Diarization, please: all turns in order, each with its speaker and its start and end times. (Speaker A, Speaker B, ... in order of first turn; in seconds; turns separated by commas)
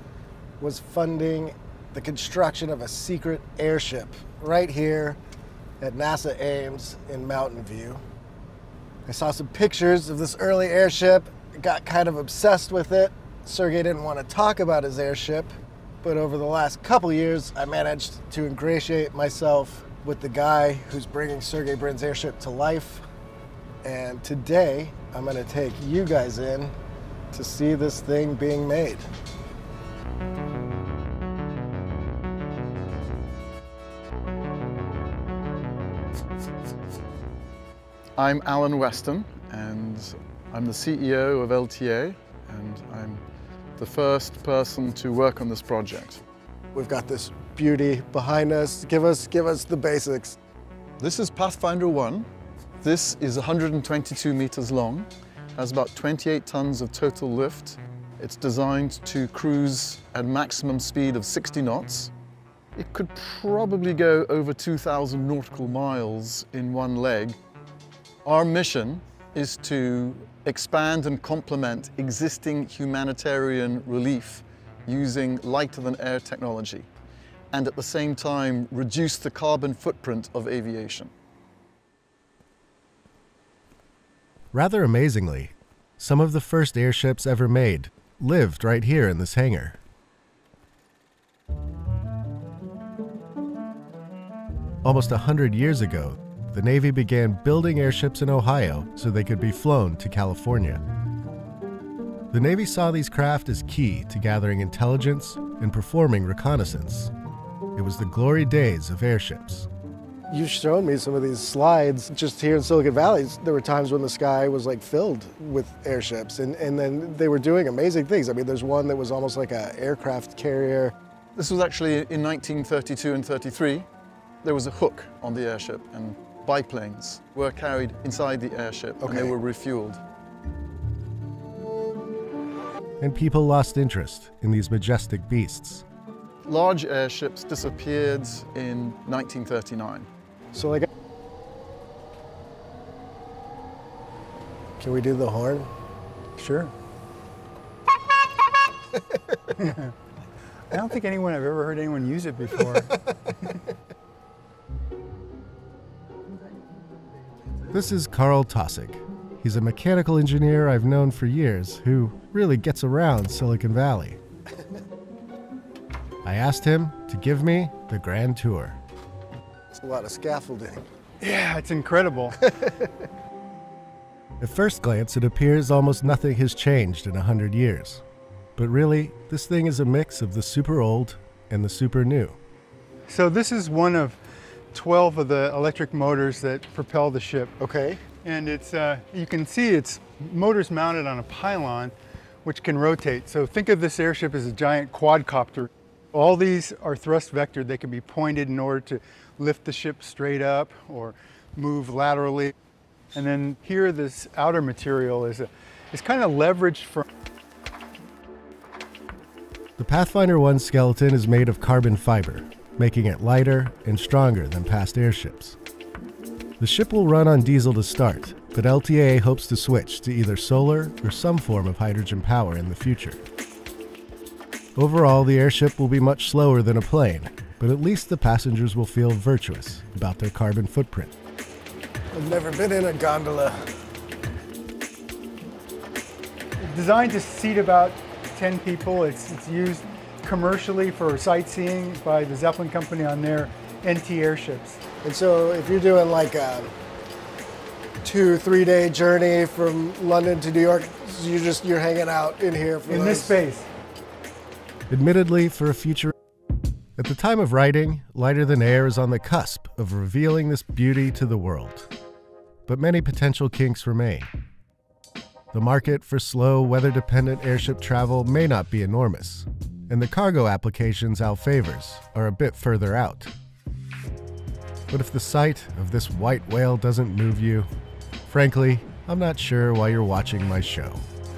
Speaker A: 0.6-5.2, Speaker A: 5.8-8.0, Speaker A: 9.1-23.1, Speaker A: 23.8-26.8, Speaker A: 27.3-29.1, Speaker B: 38.2-43.2, Speaker B: 43.8-46.2, Speaker A: 46.7-50.4, Speaker B: 51.0-52.3, Speaker B: 52.8-62.1, Speaker B: 62.8-67.4, Speaker B: 68.2-76.9, Speaker B: 77.5-81.1, Speaker C: 84.5-89.8, Speaker C: 94.8-100.8, Speaker C: 102.3-107.1, Speaker C: 107.8-109.7, Speaker A: 110.3-120.9, Speaker B: 121.3-123.9, Speaker B: 124.4-130.0, Speaker A: 129.1-129.3, Speaker C: 133.0-135.8, Speaker B: 136.4-140.1, Speaker A: 140.5-140.9, Speaker A: 144.8-145.7, Speaker D: 146.4-146.7, Speaker D: 149.5-149.9, Speaker D: 150.7-153.0, Speaker C: 157.7-164.2, Speaker C: 166.2-168.8, Speaker A: 169.7-170.8, Speaker D: 171.2-172.5, Speaker C: 174.4-178.0, Speaker C: 178.6-182.4, Speaker D: 183.1-184.2, Speaker D: 184.7-187.5, Speaker A: 187.6-188.0, Speaker D: 188.1-202.5, Speaker D: 203.1-207.1, Speaker C: 209.8-215.6, Speaker C: 216.6-223.2, Speaker C: 224.8-231.1, Speaker A: 232.1-233.7, Speaker D: 236.6-244.8, Speaker A: 245.0-246.7, Speaker A: 248.0-253.4, Speaker D: 252.9-253.7, Speaker C: 254.9-256.1, Speaker C: 257.0-261.9, Speaker C: 262.7-264.3, Speaker C: 265.5-273.3, Speaker C: 274.9-277.7, Speaker C: 278.3-281.0